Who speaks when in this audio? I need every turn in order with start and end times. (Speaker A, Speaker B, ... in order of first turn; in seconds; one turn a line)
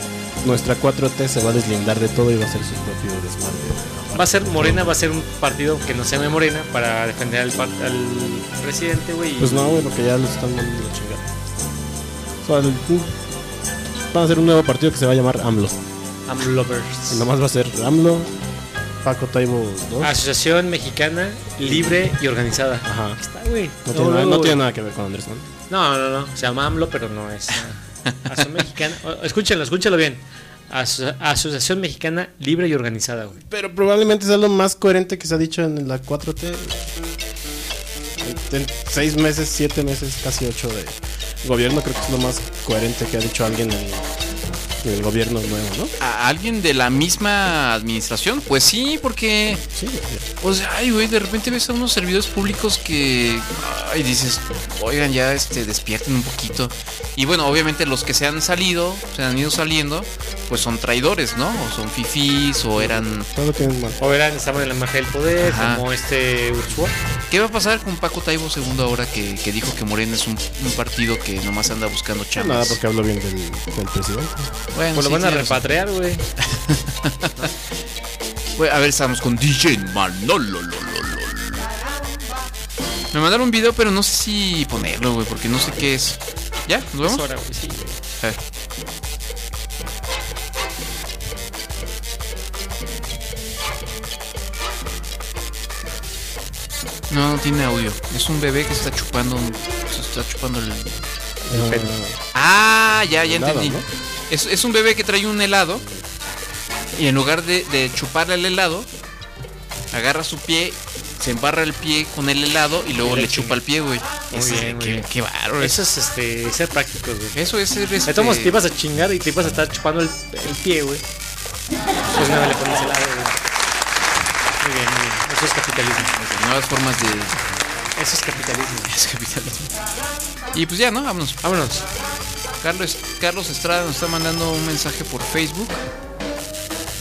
Speaker A: 0.4-5.0
Speaker B: 4.1-9.8
Speaker A: 9.4-11.3
Speaker A: 12.4-13.2
Speaker A: 14.1-15.8
Speaker B: 16.3-17.2
Speaker A: 17.1-18.3
Speaker A: 19.0-20.1
Speaker B: 20.0-24.6
Speaker A: 21.6-22.0
Speaker A: 22.8-23.2
Speaker A: 23.8-25.4
Speaker B: 25.7-33.4
Speaker A: 33.4-36.8
Speaker A: 38.2-44.1
Speaker A: 44.8-45.9
Speaker C: 46.0-49.6
Speaker A: 49.7-50.3
Speaker C: 50.4-63.3
Speaker A: 62.8-64.0
Speaker B: 64.0-66.9
Speaker C: 65.4-65.8
Speaker C: 67.3-72.8
Speaker A: 72.3-74.5
Speaker C: 74.7-75.7
Speaker B: 74.9-76.2
Speaker C: 76.4-77.5
Speaker C: 78.6-81.7
Speaker C: 83.1-87.2
Speaker B: 87.0-88.0
Speaker C: 97.1-101.0
Speaker B: 101.5-101.9
Speaker A: 101.5-102.2
Speaker C: 102.3-105.8
Speaker A: 103.2-103.9
Speaker C: 106.9-108.9
Speaker C: 109.9-115.8
Speaker B: 113.0-113.6
Speaker B: 114.3-115.1
Speaker B: 115.6-117.4
Speaker C: 117.3-118.6
Speaker B: 118.0-121.0
Speaker B: 122.1-123.4
Speaker B: 124.6-126.2
Speaker C: 126.2-127.3
Speaker B: 128.0-128.9
Speaker C: 128.9-129.7
Speaker C: 130.5-131.4
Speaker B: 131.4-131.8
Speaker C: 132.6-135.8